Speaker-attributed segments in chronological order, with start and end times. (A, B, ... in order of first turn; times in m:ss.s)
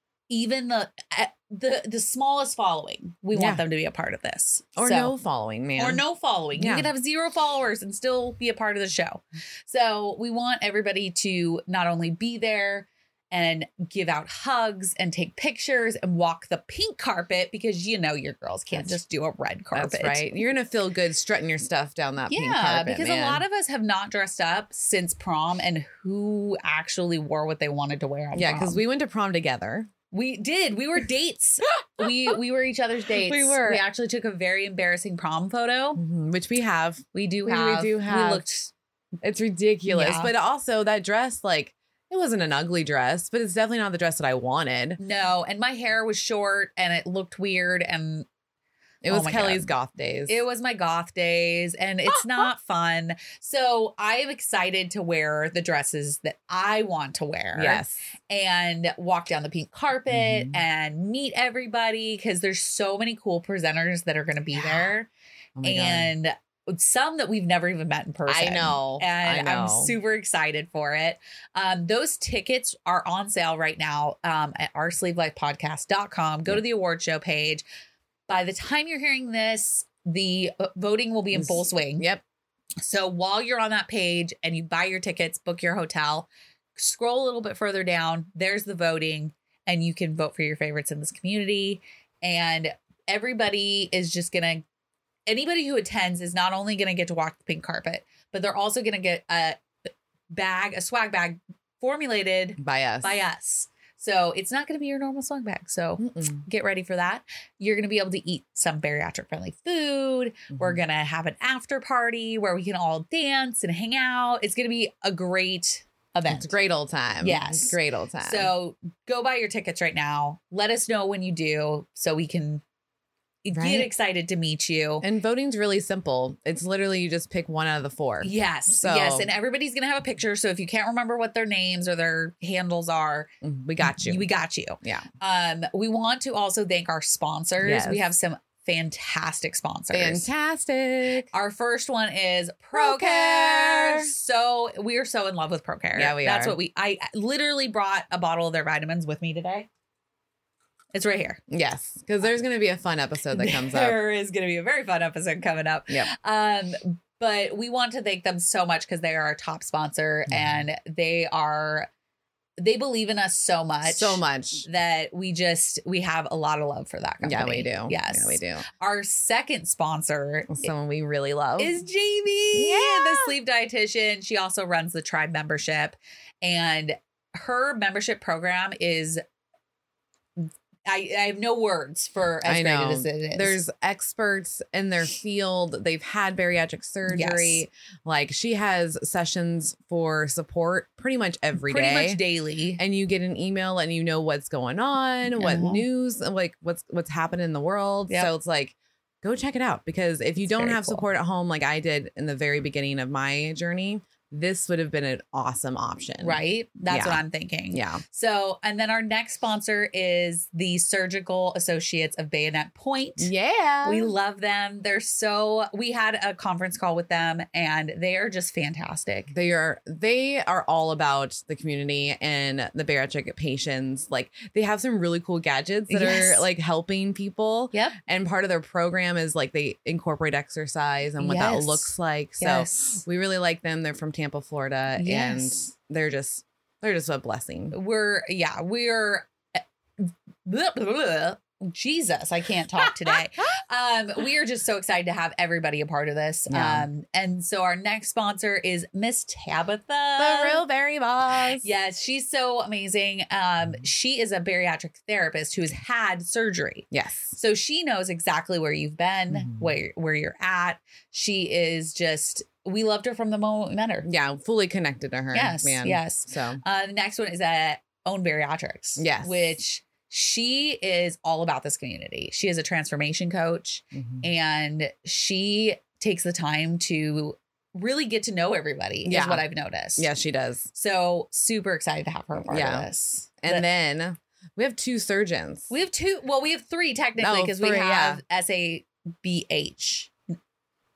0:00.3-0:05.1 A
0:03.3-0:03.6 B
0:04.8-0:06.0 B
0:05.8-0:20.2 A
0:06.6-0:06.9 B
0:18.7-0:19.0 B
0:19.7-0:23.4 B
0:22.3-0:28.8 A
0:28.3-0:29.9 B
0:30.1-0:36.0 A
0:31.8-0:32.3 B
0:33.2-0:33.8 B
0:36.0-0:38.4 B
0:37.1-0:38.7 A
0:39.2-0:45.0 B
0:39.9-0:40.3 A
0:45.0-0:48.2 A
0:49.0-0:50.4 B
0:49.1-0:49.7 A
0:50.3-1:05.1 A
0:52.1-0:52.4 B
0:57.5-0:58.0 B
1:00.1-1:00.6 B
1:04.5-1:04.9 B
1:05.6-1:06.1 B
1:05.6-1:17.6 A
1:08.3-1:09.9 B
1:18.3-1:22.1 A
1:21.3-1:22.2 B
1:22.8-1:34.6 A
1:35.3-1:39.6 A
1:40.3-1:56.5 A
1:42.6-1:43.2 B
1:46.0-1:46.4 B
1:56.3-1:58.5 B
1:57.2-2:02.6 A
2:03.4-2:05.0 A
2:03.5-2:03.9 B
2:05.0-2:09.3 B
2:08.2-2:20.3 A
2:13.4-2:14.3 B
2:17.6-2:18.0 B
2:19.9-2:21.3 B
2:21.3-2:29.7 A
2:22.7-2:24.1 B
2:26.0-2:26.6 B
2:30.9-2:31.4 A
2:31.5-2:34.0 B
2:33.3-2:41.9 A
2:40.3-2:40.6 B
2:42.6-2:50.7 A
2:43.8-2:44.6 B
2:47.2-2:48.6 B
2:50.5-2:51.7 B
2:51.6-2:59.2 A
2:52.5-2:53.3 B
3:00.8-3:03.6 A
3:02.4-3:12.2 B
3:07.1-3:07.6 A
3:11.6-3:12.8 A
3:12.8-3:28.0 B
3:15.3-3:15.8 A
3:20.4-3:21.0 A
3:26.2-3:33.3 A
3:33.2-3:34.1 B
3:33.8-3:39.3 A
3:39.3-3:57.8 B
3:45.9-3:46.4 A
3:51.2-3:53.0 A
3:55.0-3:55.7 A
3:57.7-3:59.3 A
4:00.0-4:10.6 A
4:02.8-4:03.2 B
4:06.5-4:06.9 B
4:10.2-4:11.7 B
4:11.6-4:24.1 A
4:16.9-4:17.4 B
4:19.3-4:19.7 B
4:24.0-4:26.6 B
4:25.3-4:40.1 A
4:29.0-4:29.5 B
4:33.9-4:34.2 B
4:39.0-4:39.4 B
4:40.0-4:40.7 B
4:40.7-4:43.6 A
4:42.4-4:42.9 B
4:43.4-4:45.7 B
4:45.7-4:50.1 A
4:47.2-4:48.2 B